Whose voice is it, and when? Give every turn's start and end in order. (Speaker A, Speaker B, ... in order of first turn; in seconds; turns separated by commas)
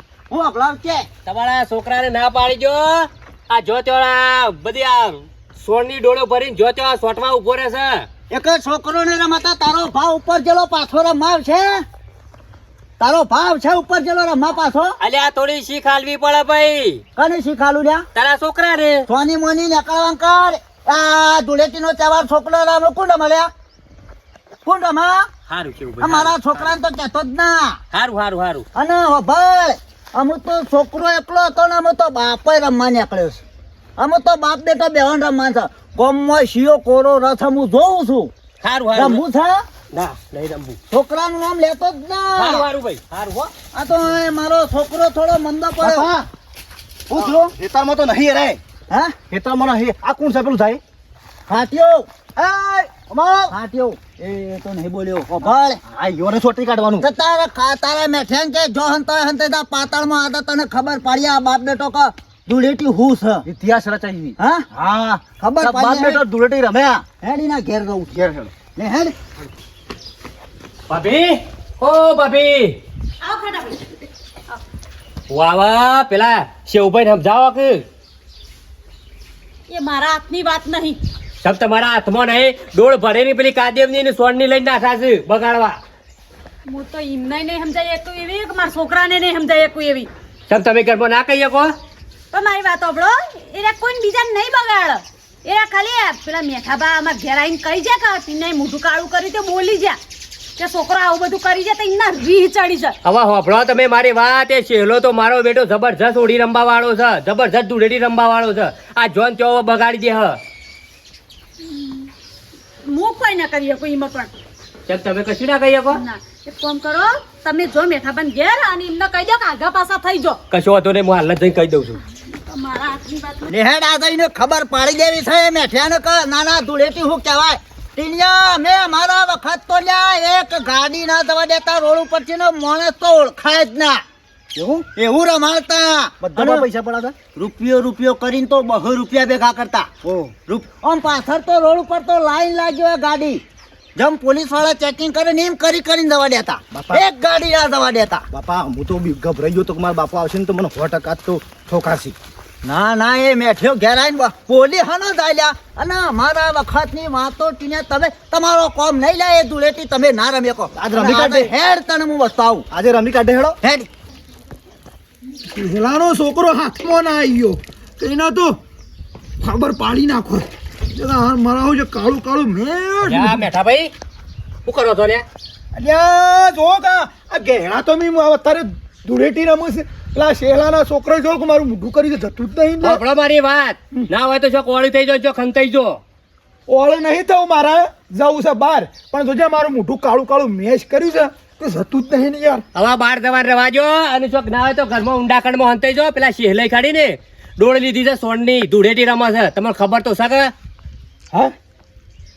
Speaker A: 0.3-1.1, Speaker B: 1.2-8.1, Speaker A: 8.3-11.8, Speaker A: 13.0-15.0, Speaker B: 15.0-17.0, Speaker A: 17.2-18.1, Speaker B: 18.1-19.1, Speaker A: 19.1-23.5, Speaker A: 24.6-25.3, Speaker B: 25.5-26.7, Speaker A: 26.0-27.8, Speaker B: 27.9-28.7, Speaker A: 28.8-33.4, Speaker A: 34.0-38.3, Speaker B: 38.6-39.2, Speaker A: 38.9-39.6, Speaker B: 39.9-40.8, Speaker A: 40.9-42.7, Speaker B: 42.4-43.5, Speaker A: 43.7-46.1, Speaker C: 45.8-46.3, Speaker A: 47.1-47.5, Speaker C: 47.1-48.6, Speaker A: 48.9-49.2, Speaker C: 49.3-50.8, Speaker A: 51.5-52.1, Speaker C: 52.4-53.5, Speaker A: 53.5-55.8, Speaker C: 55.9-57.1, Speaker A: 57.0-63.5, Speaker C: 63.5-67.0, Speaker A: 64.4-64.7, Speaker A: 65.4-66.2, Speaker A: 67.2-68.1, Speaker C: 68.1-68.5, Speaker A: 68.8-69.2, Speaker B: 70.9-72.8, Speaker D: 73.2-73.9, Speaker B: 75.3-77.8, Speaker D: 79.7-81.0, Speaker B: 81.4-85.8, Speaker D: 86.7-90.1, Speaker B: 90.5-91.7, Speaker D: 92.3-100.0, Speaker D: 100.6-103.0, Speaker B: 103.0-110.4, Speaker D: 111.7-112.0, Speaker D: 112.8-114.3, Speaker B: 114.9-116.0, Speaker D: 115.9-120.4, Speaker B: 120.5-122.0, Speaker D: 122.3-123.5, Speaker A: 123.5-134.0, Speaker C: 134.6-134.9, Speaker A: 134.9-136.7, Speaker C: 136.2-137.2, Speaker A: 137.3-139.9, Speaker C: 140.0-140.3, Speaker A: 140.5-143.4, Speaker A: 144.0-148.2, Speaker C: 146.7-147.1, Speaker C: 148.3-152.2, Speaker A: 152.7-162.7, Speaker C: 160.8-161.5, Speaker C: 162.7-163.6, Speaker A: 163.6-163.9, Speaker E: 165.5-168.6, Speaker E: 169.4-173.5, Speaker B: 173.0-173.9, Speaker B: 174.7-175.2, Speaker E: 175.8-183.0, Speaker B: 182.8-186.0, Speaker E: 186.7-192.6, Speaker B: 192.8-200.5